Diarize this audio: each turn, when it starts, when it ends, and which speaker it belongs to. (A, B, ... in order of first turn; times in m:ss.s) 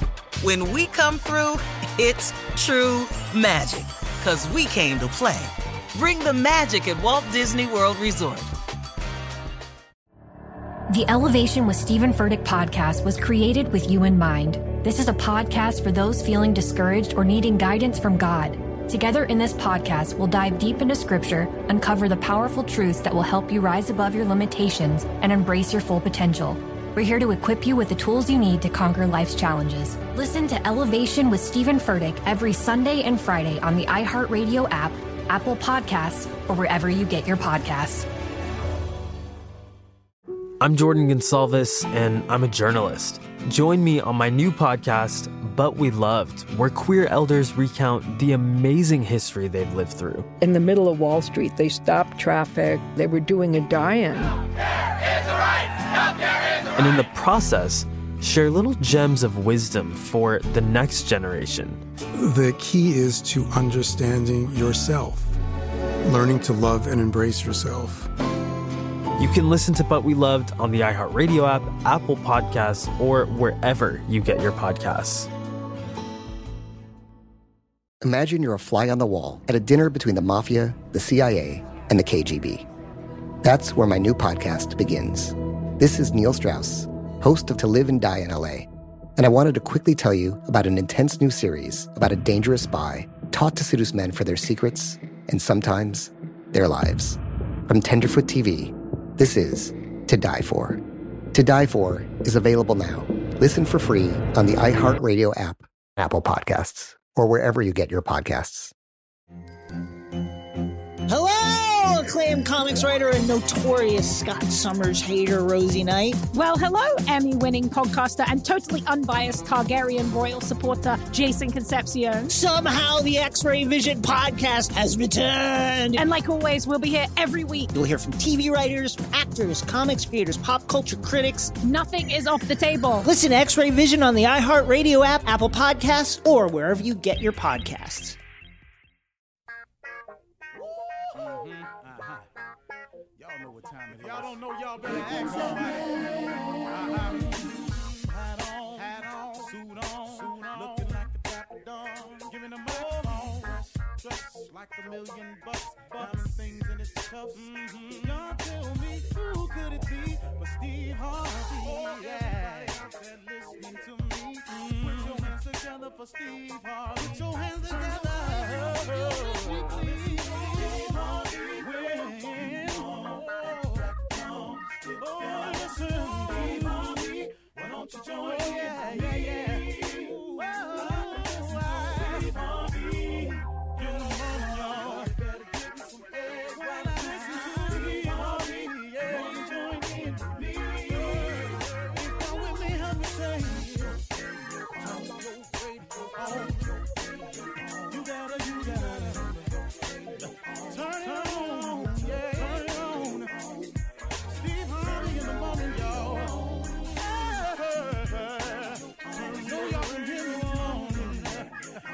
0:00.4-0:08.5 A
0:10.9-0:38.1 B
0:40.6-0:50.3 C
0:50.4-0:54.4 D
0:56.7-1:01.8 C
1:02.1-1:05.4 E
1:06.0-1:08.1 E
1:09.2-1:15.3 C
1:18.0-1:22.7 F
1:23.4-1:40.8 F
1:41.3-1:48.7 F
1:51.1-1:56.2 G
1:56.3-2:02.3 H
2:02.3-2:06.0 G
2:06.0-2:07.7 H
2:07.7-2:11.6 G
2:11.6-2:13.1 H
2:13.0-2:18.2 G
2:21.2-2:22.1 I
2:23.7-2:26.0 I
2:26.7-3:14.0 I
3:14.7-3:19.4 I
3:20.7-3:23.4 I
3:24.3-3:31.5 I